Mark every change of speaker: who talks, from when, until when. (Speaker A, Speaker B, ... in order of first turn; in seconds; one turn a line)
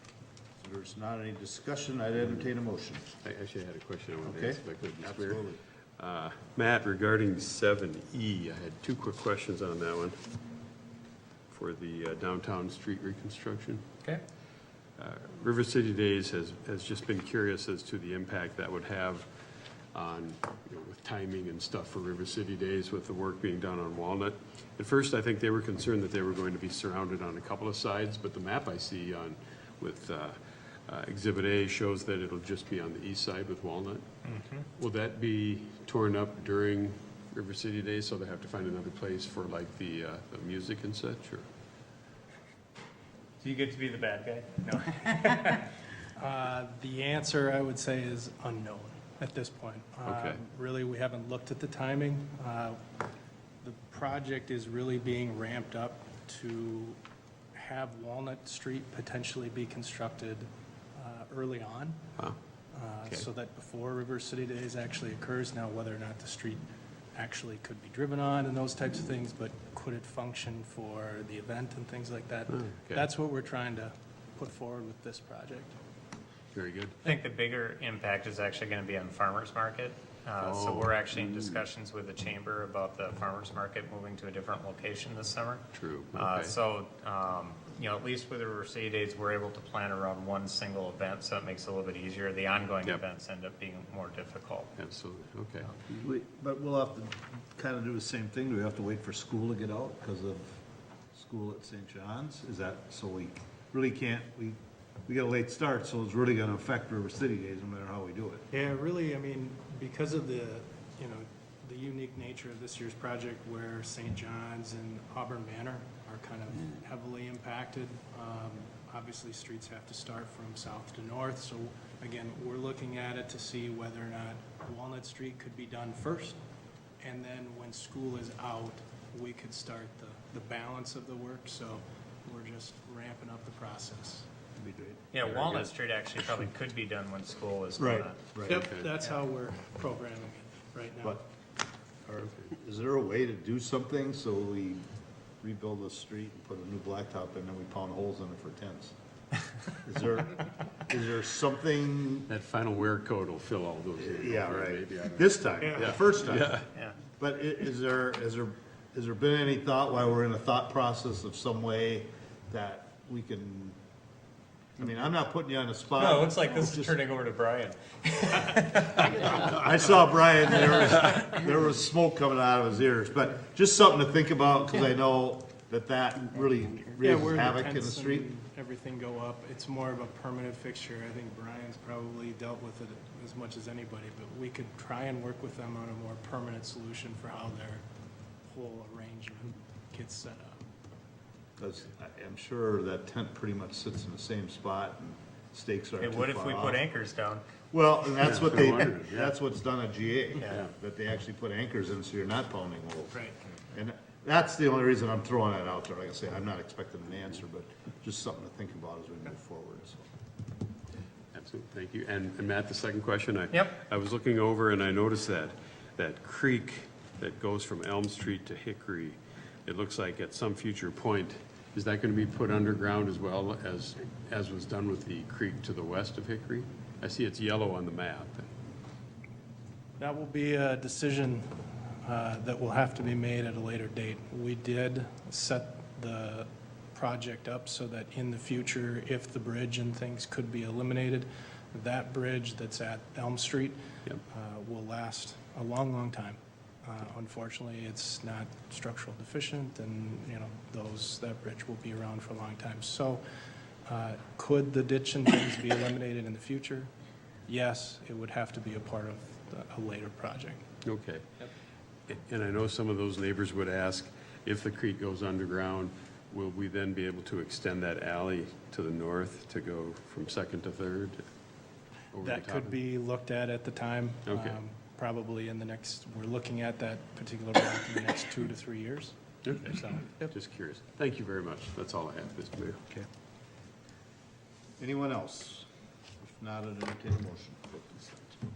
Speaker A: 0.6-3.0
Speaker B: 3.2-5.4
Speaker A: 4.2-5.6
Speaker B: 6.0-10.2
Speaker B: 11.5-13.8
Speaker B: 15.0-19.3
Speaker B: 19.9-34.0
Speaker C: 34.2-34.7
Speaker B: 34.8-41.5
Speaker C: 43.4-45.7
Speaker D: 46.1-52.8
Speaker B: 50.0-50.4
Speaker D: 53.6-57.0
Speaker D: 57.5-62.0
Speaker D: 62.7-66.6
Speaker D: 67.1-75.8
Speaker B: 72.5-73.1
Speaker B: 76.5-77.0
Speaker C: 77.0-94.7
Speaker B: 80.4-81.6
Speaker B: 85.7-86.5
Speaker B: 94.8-95.8
Speaker A: 96.0-100.6
Speaker A: 101.1-108.5
Speaker D: 108.5-126.4
Speaker D: 127.0-134.3
Speaker A: 134.6-135.6
Speaker C: 135.1-138.2
Speaker A: 137.8-138.6
Speaker D: 138.4-141.2
Speaker B: 138.5-138.9
Speaker A: 142.1-144.8
Speaker A: 145.4-148.9
Speaker A: 149.7-152.3
Speaker B: 152.3-156.7
Speaker A: 154.0-156.6
Speaker A: 157.1-163.8
Speaker A: 164.8-167.0
Speaker C: 166.0-169.4
Speaker A: 168.9-178.3
Speaker D: 177.0-187.8
Speaker D: 188.5-190.6
Speaker A: 191.6-196.8
Speaker C: 196.0-197.4
Speaker A: 197.7-210.1
Speaker B: 198.2-199.3
Speaker B: 211.3-228.5
Speaker D: 230.0-231.5
Speaker D: 232.0-243.8
Speaker D: 244.3-253.2
Speaker D: 253.8-256.9
Speaker D: 257.5-260.6
Speaker B: 260.8-261.3
Speaker B: 262.1-271.2
Speaker B: 272.1-272.8
Speaker D: 272.2-279.1
Speaker B: 274.2-274.6
Speaker B: 279.4-282.8
Speaker D: 279.7-280.3
Speaker A: 284.8-285.7
Speaker A: 286.2-288.4